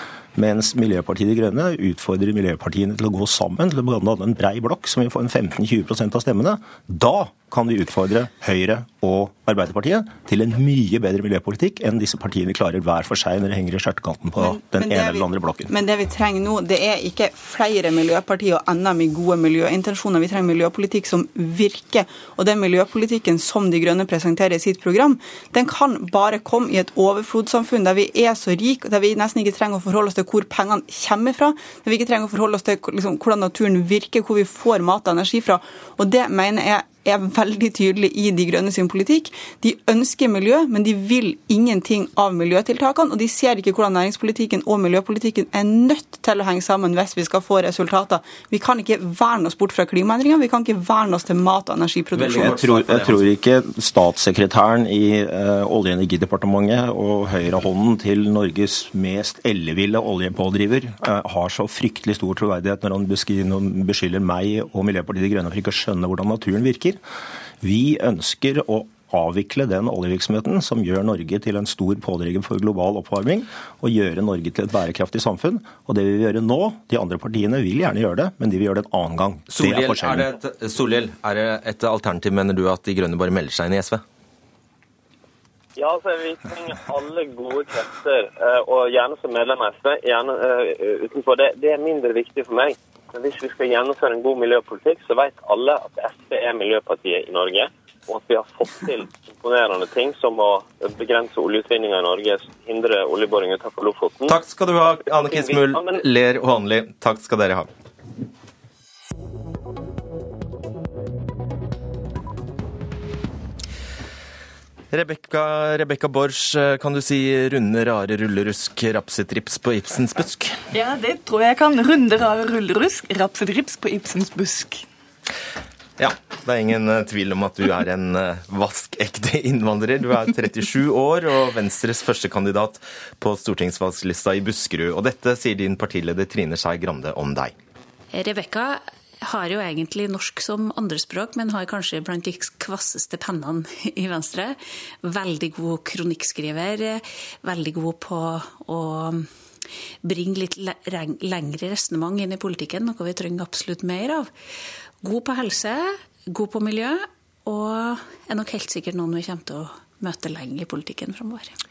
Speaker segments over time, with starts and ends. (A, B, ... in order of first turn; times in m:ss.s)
0:00.4-0:15.7 A
0:14.4-0:52.8 B
0:52.2-0:53.2 C
0:52.2-1:07.0 A
1:07.6-1:20.3 A
1:19.5-1:24.0 C
1:25.8-1:44.4 D
1:44.3-1:47.7 C
1:45.0-1:46.0 D
1:54.9-2:00.6 C
2:00.7-2:04.8 E
2:06.0-2:17.5 C
2:18.1-2:29.3 F
2:30.0-2:34.3 F
2:35.0-2:41.5 F